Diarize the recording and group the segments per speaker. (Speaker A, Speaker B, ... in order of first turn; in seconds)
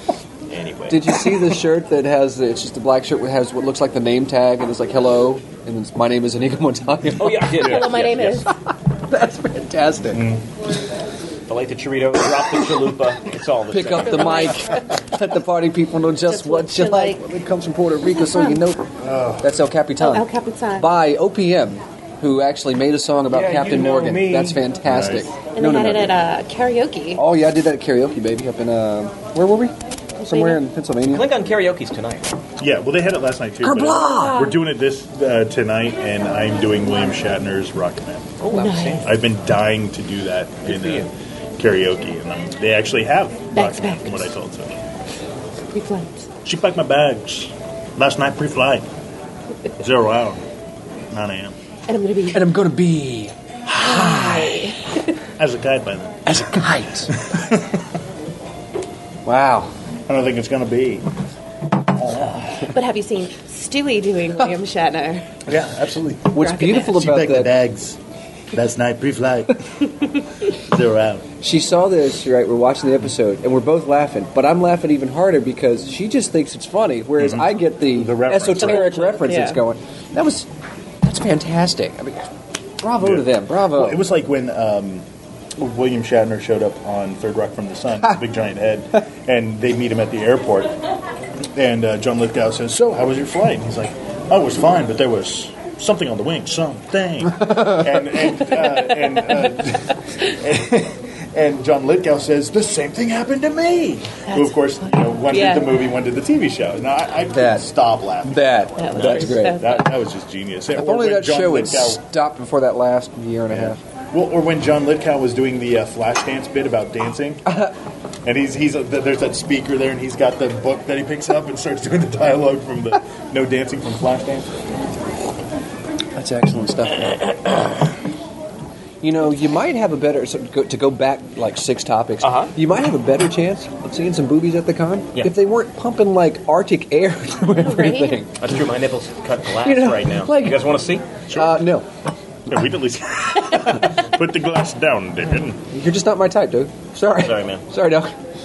Speaker A: 0.5-1.4, 7.2-8.5, 11.5-14.6, 23.3-24.7, 31.1-32.3, 38.4-39.1, 40.6-41.1, 78.6-79.3, 132.2-132.5, 138.4-141.0, 147.1-147.6
Speaker B: 0.9-7.5, 9.1-10.3, 13.7-18.9, 19.4-26.2, 27.1-29.7, 30.3-31.3, 33.6-34.5, 52.3-53.3, 53.9-54.5, 56.3-57.1, 59.2-59.7, 66.3-67.5, 71.4-80.5, 81.0-82.3, 82.8-84.0, 107.2-107.7, 108.2-109.7, 110.7-113.8, 117.5-117.7, 126.2-127.2, 129.0-138.4, 139.6-140.7, 141.3-141.8, 145.7-148.1
Speaker C: 7.6-8.5, 14.1-14.6, 16.3-17.2, 18.1-18.6, 20.0-20.9, 25.6-27.2, 30.2-30.6, 38.5-39.2, 43.5-44.3, 45.7-46.3, 51.9-52.5, 53.8-55.0, 62.7-65.3, 66.3-67.0, 78.6-79.6, 98.7-99.1, 104.3-105.9, 108.8-110.0, 137.6-138.2
Speaker D: 10.1-10.4, 19.0-19.5, 24.9-25.3, 32.6-38.4, 39.0-44.7, 46.4-48.9, 49.8-50.4, 51.1-51.5, 55.4-56.2, 57.2-57.6, 60.1-61.0, 62.0-62.7, 65.5-68.0, 68.5-69.6, 70.7-71.2, 77.2-79.0, 83.0-85.0, 85.5-90.7, 91.5-112.0, 113.5-117.4, 118.2-124.5, 141.3-141.6, 142.5-145.6